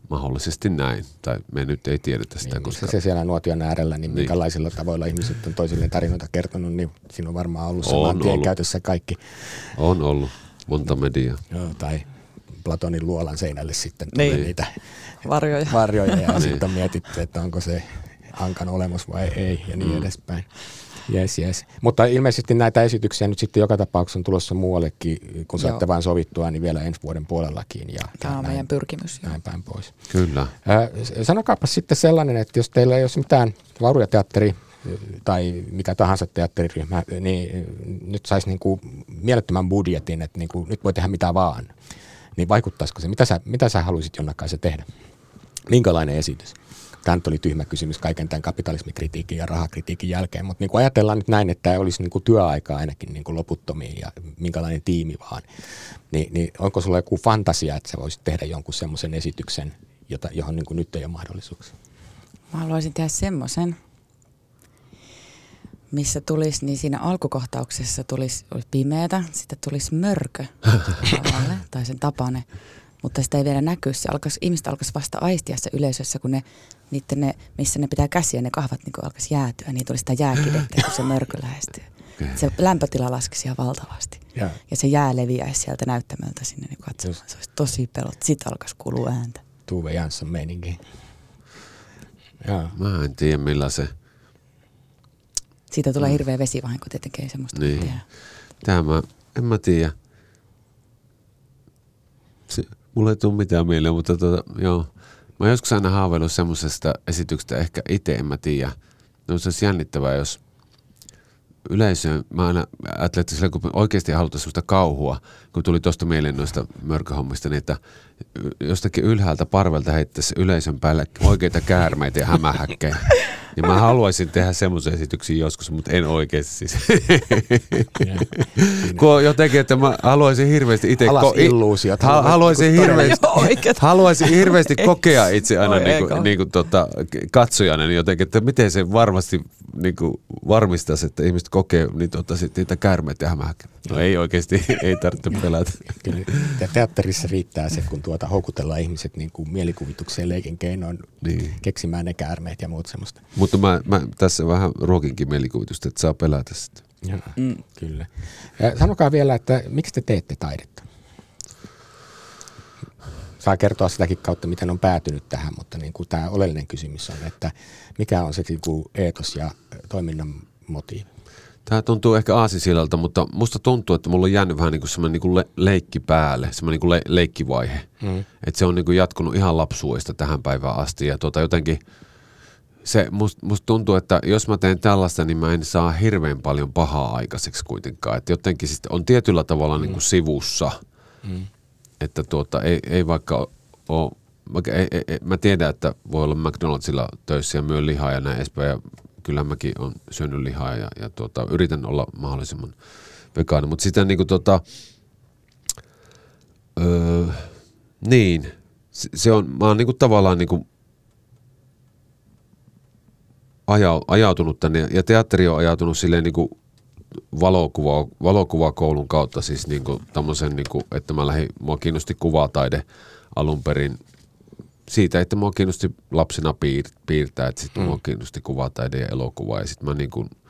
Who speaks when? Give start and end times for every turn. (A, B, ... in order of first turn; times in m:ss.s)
0:00.1-0:03.0 A
0:02.5-0:09.7 B
0:07.8-0:08.5 A
0:09.8-0:11.4 A
0:11.5-0:15.1 B
0:14.1-0:14.4 C
0:15.2-0:16.5 C
0:15.7-0:28.6 B
0:19.8-0:20.1 A
0:28.2-0:29.4 C
0:29.2-0:30.1 B
0:30.1-0:30.5 A
0:30.6-0:41.7 B
0:42.4-0:44.9 B
0:45.7-0:55.4 B
0:56.1-1:01.7 B
1:02.5-1:03.8 C
1:05.9-1:12.5 C
1:13.0-1:29.4 C
1:29.7-1:30.8 B
1:32.4-1:32.8 B
1:32.8-1:33.9 A
1:35.7-1:38.0 C
1:37.6-1:40.0 A
1:42.5-1:48.8 A
1:49.3-1:50.4 A
1:51.7-1:57.8 A
1:58.3-2:26.6 A
2:08.0-2:09.0 B
2:11.0-2:13.5 B
2:12.8-2:14.9 C
2:15.6-2:16.3 C
2:26.0-2:33.2 B
2:31.2-2:31.6 A
2:33.4-2:36.8 A
2:37.0-2:40.8 B
2:37.4-2:37.6 C
2:43.4-2:51.1 B
2:51.7-2:57.9 A
2:58.0-2:58.3 B
2:58.4-3:01.8 A
3:02.8-3:10.8 A
3:12.0-3:22.8 A
3:23.3-3:24.6 A
3:26.8-3:30.6 A
3:33.7-3:36.5 A
3:37.3-3:44.0 A
3:44.9-3:50.3 A